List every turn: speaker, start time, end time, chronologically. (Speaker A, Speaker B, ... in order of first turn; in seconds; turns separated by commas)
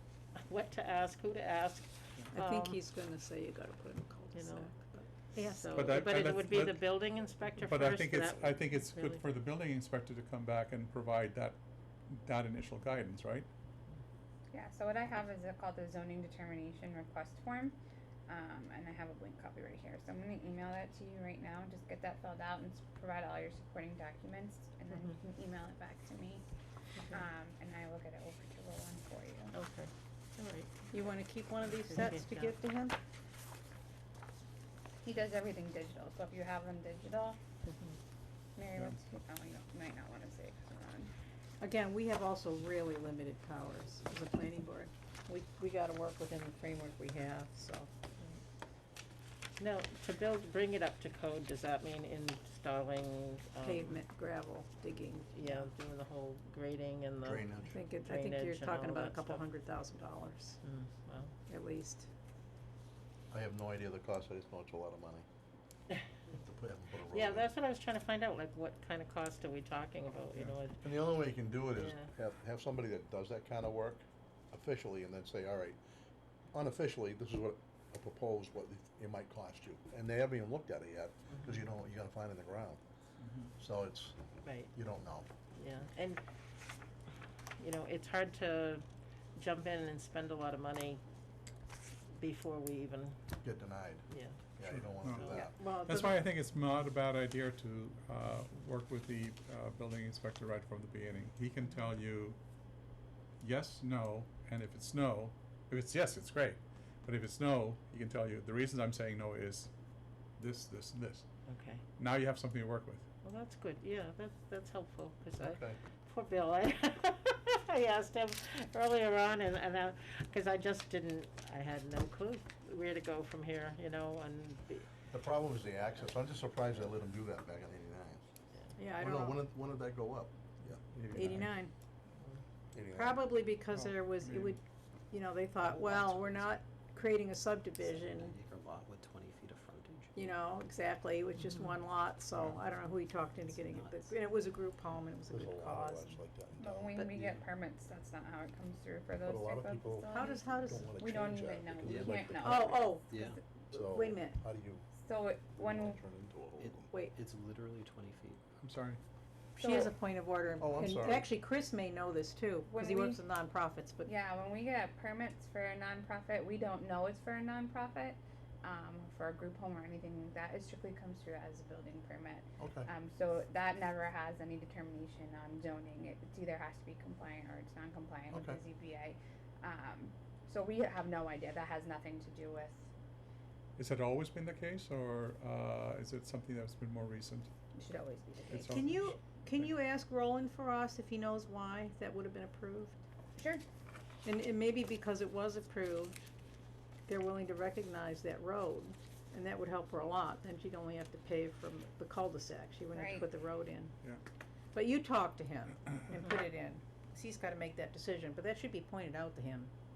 Speaker A: 0.3-2.8, Speaker B: 2.3-5.7, Speaker A: 4.3-4.7, Speaker A: 5.5-9.2, Speaker C: 5.7-6.8, Speaker C: 7.6-11.6, Speaker C: 12.1-13.5, Speaker D: 14.5-26.4, Speaker D: 27.1-29.5, Speaker A: 29.5-31.1, Speaker B: 30.9-33.0, Speaker A: 31.9-32.5, Speaker D: 35.0-37.4, Speaker D: 38.5-41.1, Speaker B: 41.6-47.9, Speaker A: 49.6-54.0, Speaker B: 53.6-55.6, Speaker A: 55.3-59.4, Speaker E: 57.2-57.8, Speaker B: 57.7-60.6, Speaker A: 60.6-61.3, Speaker B: 61.5-62.1, Speaker E: 63.3-65.2, Speaker E: 66.3-67.5, Speaker A: 67.1-70.8, Speaker E: 70.8-75.8, Speaker A: 71.7-72.1, Speaker E: 76.5-82.8, Speaker C: 83.2-83.5, Speaker E: 83.6-84.2, Speaker A: 84.4-84.7, Speaker E: 84.7-85.3, Speaker A: 85.6-86.2, Speaker A: 87.6-88.8, Speaker A: 89.3-91.0, Speaker A: 92.2-93.2, Speaker E: 93.4-94.0, Speaker A: 94.1-94.4, Speaker E: 94.6-95.6, Speaker C: 94.7-102.4, Speaker A: 95.0-95.5, Speaker B: 95.5-96.2, Speaker C: 103.4-109.7, Speaker C: 110.4-111.2, Speaker A: 111.5-111.8, Speaker C: 112.0-113.0, Speaker A: 113.2-124.9, Speaker E: 115.4-115.8, Speaker E: 125.1-128.2, Speaker B: 128.8-129.4, Speaker E: 128.9-130.8, Speaker C: 130.8-131.5, Speaker B: 131.1-131.7, Speaker E: 132.7-133.4, Speaker B: 132.9-134.6, Speaker C: 133.8-134.5, Speaker B: 135.1-138.3, Speaker F: 135.6-136.5, Speaker F: 137.8-140.4, Speaker B: 140.1-146.2, Speaker F: 142.4-142.8, Speaker F: 143.4-144.2, Speaker E: 145.3-147.4, Speaker D: 146.6-153.4, Speaker E: 149.2-152.8, Speaker B: 150.1-150.9, Speaker F: 151.8-153.4, Speaker B: 152.4-154.4, Speaker E: 153.7-154.8, Speaker D: 154.9-156.0, Speaker E: 155.6-156.9, Speaker F: 156.6-158.4, Speaker B: 156.9-157.2, Speaker C: 158.6-159.0, Speaker B: 159.6-164.1, Speaker D: 159.6-159.9, Speaker E: 160.6-161.3, Speaker D: 162.7-163.2, Speaker D: 164.1-182.9, Speaker E: 172.6-172.9, Speaker E: 178.3-178.6, Speaker C: 183.8-187.5, Speaker D: 187.7-188.8, Speaker C: 188.5-189.7, Speaker B: 188.7-193.0, Speaker D: 193.3-193.6, Speaker B: 194.2-196.2, Speaker B: 197.1-203.9, Speaker D: 202.9-203.3, Speaker B: 204.7-209.7